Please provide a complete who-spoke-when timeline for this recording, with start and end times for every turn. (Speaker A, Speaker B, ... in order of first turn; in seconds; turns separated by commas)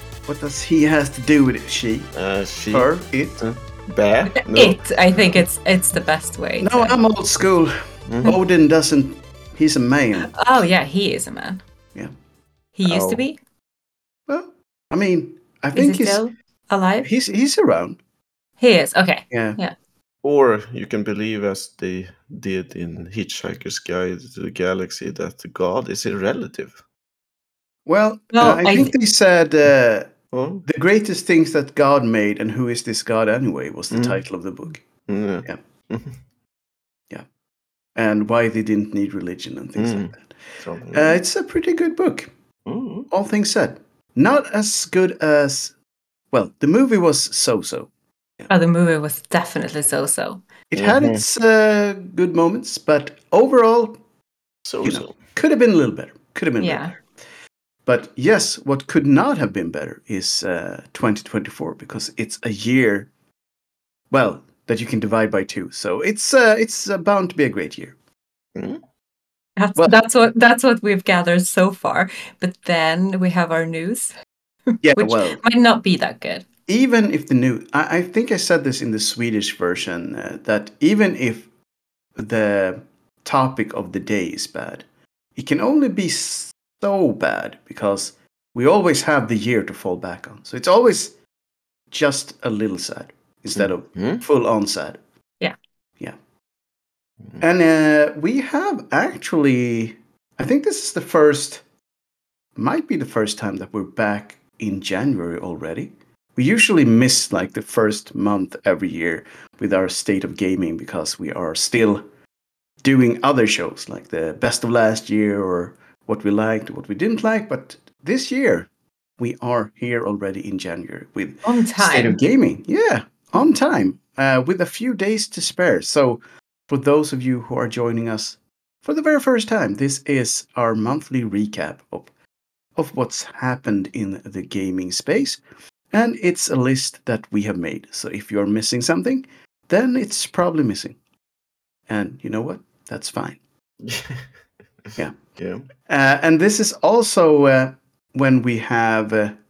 Speaker A: 0.3-2.1, Speaker B: 2.1-4.8, Speaker A: 2.7-3.4, Speaker C: 4.3-7.0, Speaker A: 6.6-10.4, Speaker B: 8.1-8.3, Speaker C: 10.2-11.6, Speaker C: 12.7-13.4, Speaker B: 12.8-13.2, Speaker A: 14.3-16.2, Speaker C: 15.7-17.1, Speaker A: 17.0-18.0, Speaker C: 18.6-19.7, Speaker A: 19.3-19.6, Speaker B: 20.2-26.8, Speaker A: 27.9-30.1, Speaker C: 28.3-28.9, Speaker B: 28.4-28.9, Speaker B: 30.3-30.6, Speaker A: 30.7-34.8, Speaker B: 33.9-34.2, Speaker B: 35.1-36.2, Speaker A: 38.0-40.2, Speaker B: 39.8-41.2, Speaker A: 40.9-42.3, Speaker B: 42.6-43.1, Speaker A: 43.1-45.7, Speaker A: 46.3-47.9, Speaker C: 48.5-50.4, Speaker A: 50.7-54.0, Speaker B: 50.8-51.2, Speaker B: 54.6-55.2, Speaker A: 54.8-57.0, Speaker C: 56.6-56.9, Speaker A: 57.9-63.1, Speaker A: 64.1-67.9, Speaker B: 68.5-68.8, Speaker C: 69.6-74.1, Speaker A: 74.8-75.4, Speaker C: 74.9-76.5, Speaker A: 76.7-81.5, Speaker A: 82.2-84.8, Speaker A: 85.3-91.1, Speaker A: 91.9-95.0, Speaker B: 93.5-94.2, Speaker A: 97.4-101.6, Speaker A: 102.6-112.0, Speaker A: 112.8-118.7, Speaker A: 119.2-132.1, Speaker C: 121.4-122.2, Speaker A: 132.8-135.4, Speaker A: 135.9-140.9, Speaker A: 141.9-143.4, Speaker B: 143.8-144.3, Speaker B: 145.4-145.7, Speaker A: 145.9-149.3